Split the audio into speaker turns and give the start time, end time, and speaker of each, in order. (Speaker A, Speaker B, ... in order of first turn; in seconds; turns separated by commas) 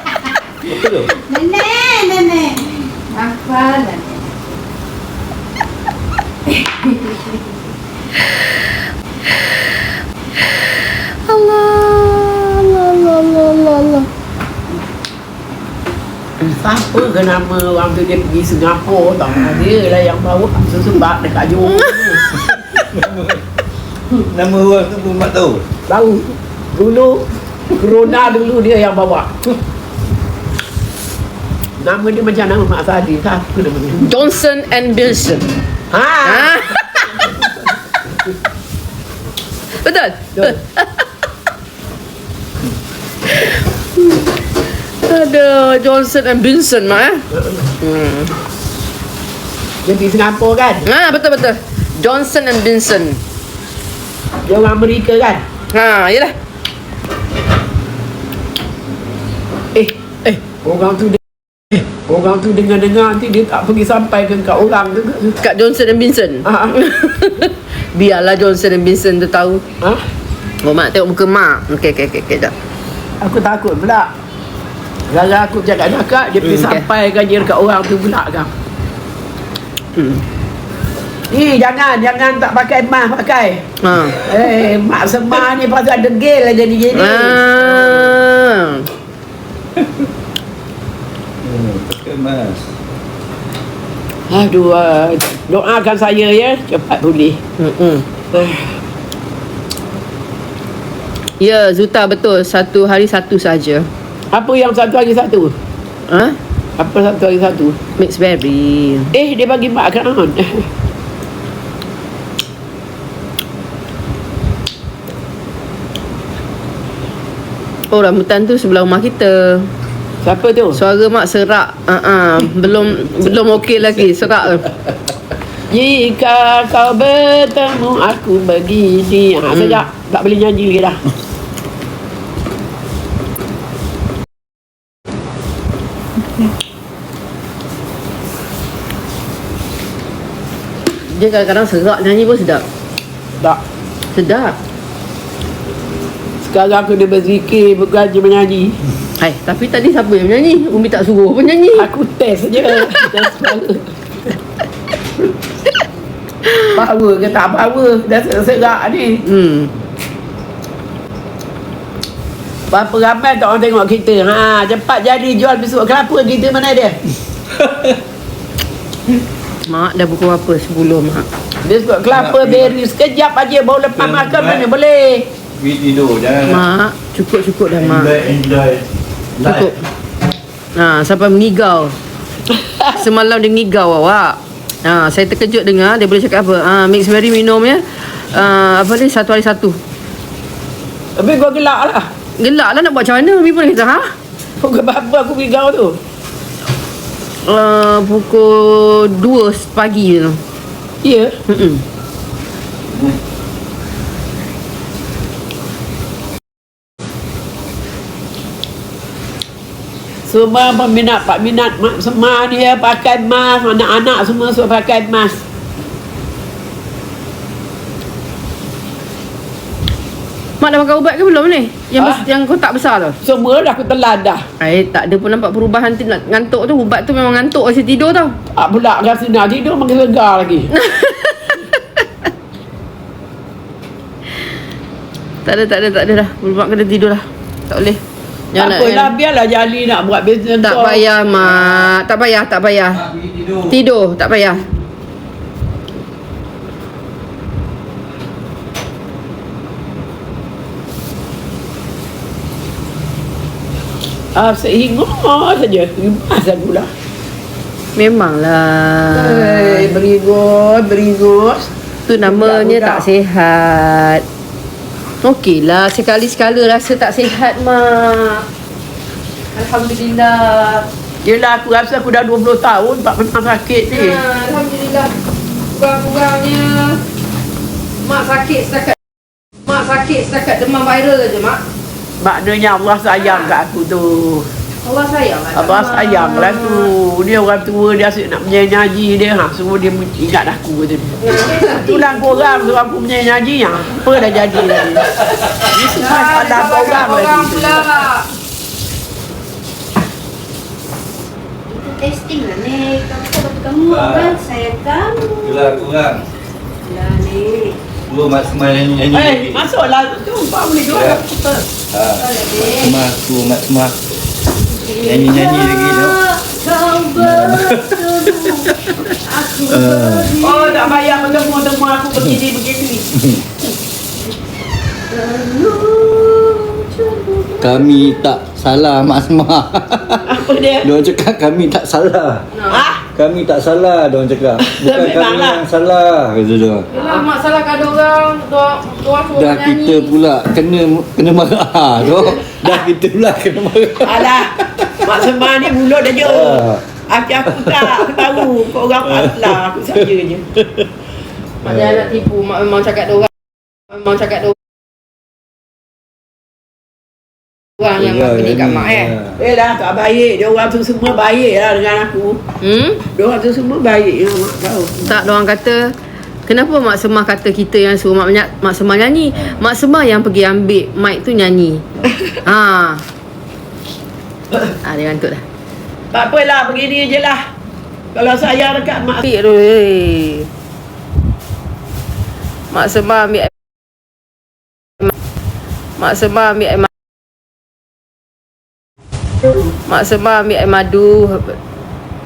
Speaker A: 0.6-1.2, Speaker B: 1.3-4.3, Speaker C: 3.5-4.0, Speaker C: 11.2-14.1, Speaker D: 16.5-22.2, Speaker A: 22.8-23.4, Speaker A: 24.1-25.6, Speaker D: 25.9-29.5, Speaker D: 31.8-34.0, Speaker C: 34.0-35.5, Speaker D: 35.9-37.4, Speaker C: 36.2-37.3, Speaker C: 39.8-41.0, Speaker C: 43.3-44.2, Speaker C: 45.0-47.3, Speaker C: 47.8-48.3, Speaker D: 49.8-50.9, Speaker C: 50.9-53.2, Speaker D: 54.5-55.4, Speaker C: 55.7-56.3, Speaker D: 59.7-65.4, Speaker C: 65.4-69.6, Speaker D: 66.5-66.8, Speaker C: 70.6-72.5, Speaker D: 73.2-74.1, Speaker D: 75.1-78.5, Speaker C: 76.4-76.9, Speaker C: 80.0-80.2, Speaker D: 81.3-88.1, Speaker C: 83.8-84.3, Speaker C: 86.9-88.9, Speaker A: 91.4-92.7, Speaker D: 94.3-97.4, Speaker C: 97.6-98.1, Speaker D: 98.3-98.6, Speaker C: 101.4-103.9, Speaker D: 104.3-105.5, Speaker C: 106.1-106.4, Speaker D: 106.8-107.8, Speaker C: 108.0-109.1, Speaker D: 109.1-110.7, Speaker C: 117.9-119.7, Speaker D: 120.2-120.8, Speaker C: 120.7-124.7, Speaker D: 125.7-131.0, Speaker C: 141.1-142.7, Speaker C: 144.1-144.6, Speaker D: 146.4-148.8, Speaker C: 149.2-151.9, Speaker D: 151.8-153.9, Speaker D: 156.7-159.2, Speaker C: 159.2-159.7, Speaker D: 162.7-167.0, Speaker A: 167.6-167.9, Speaker C: 169.7-171.3, Speaker D: 171.6-175.3, Speaker A: 172.1-172.7, Speaker A: 174.0-174.6, Speaker A: 175.6-176.6, Speaker C: 176.5-178.1, Speaker A: 177.8-178.9, Speaker A: 179.4-179.7, Speaker C: 179.4-179.8, Speaker C: 180.8-181.9, Speaker D: 182.5-182.9, Speaker C: 182.9-189.8, Speaker D: 191.2-192.1, Speaker C: 192.4-194.1, Speaker D: 194.6-196.0, Speaker C: 197.4-200.4, Speaker D: 201.0-201.4, Speaker C: 201.5-201.8, Speaker D: 210.3-215.4, Speaker C: 220.6-223.2, Speaker D: 222.0-222.2, Speaker D: 223.2-224.4, Speaker C: 224.6-228.4, Speaker D: 228.6-230.7, Speaker C: 230.7-232.0, Speaker C: 235.4-238.0, Speaker C: 238.5-239.2, Speaker D: 238.6-241.1, Speaker C: 240.6-244.7, Speaker D: 254.3-256.9, Speaker C: 258.0-259.9, Speaker D: 259.1-263.1, Speaker C: 262.1-264.2, Speaker C: 265.2-268.5, Speaker C: 269.6-270.9, Speaker D: 271.2-274.2, Speaker C: 273.9-275.1, Speaker C: 275.7-277.0, Speaker C: 278.0-279.0, Speaker C: 279.7-281.6, Speaker D: 282.2-284.5, Speaker C: 284.8-286.9, Speaker D: 285.6-295.1, Speaker C: 291.2-292.1, Speaker D: 295.6-298.0, Speaker C: 295.8-298.3, Speaker C: 301.8-305.7, Speaker A: 303.9-304.4, Speaker A: 305.3-306.2, Speaker C: 306.9-307.8, Speaker A: 308.1-309.7, Speaker D: 309.1-311.6, Speaker A: 310.9-311.2, Speaker A: 311.9-314.0, Speaker C: 312.3-312.8, Speaker C: 314.8-321.4, Speaker A: 315.0-316.2, Speaker A: 317.1-319.0, Speaker A: 319.7-320.4, Speaker D: 320.4-323.2, Speaker C: 325.1-328.3, Speaker A: 327.6-336.9, Speaker D: 330.2-330.9, Speaker C: 332.6-332.8, Speaker D: 332.7-333.0, Speaker D: 334.6-335.6, Speaker C: 336.9-340.2, Speaker A: 339.4-345.1, Speaker D: 344.0-350.5, Speaker A: 346.2-346.9, Speaker A: 347.5-348.3, Speaker C: 351.6-353.3, Speaker C: 353.9-354.6, Speaker C: 357.8-359.2, Speaker A: 358.0-359.4, Speaker D: 359.4-362.4, Speaker C: 362.6-363.0, Speaker D: 363.1-365.0, Speaker C: 365.0-365.9, Speaker C: 366.5-373.1, Speaker C: 374.8-375.4, Speaker D: 376.1-377.5, Speaker D: 378.1-379.2, Speaker C: 379.2-380.5, Speaker C: 382.7-383.5, Speaker C: 386.0-386.9, Speaker C: 389.9-391.6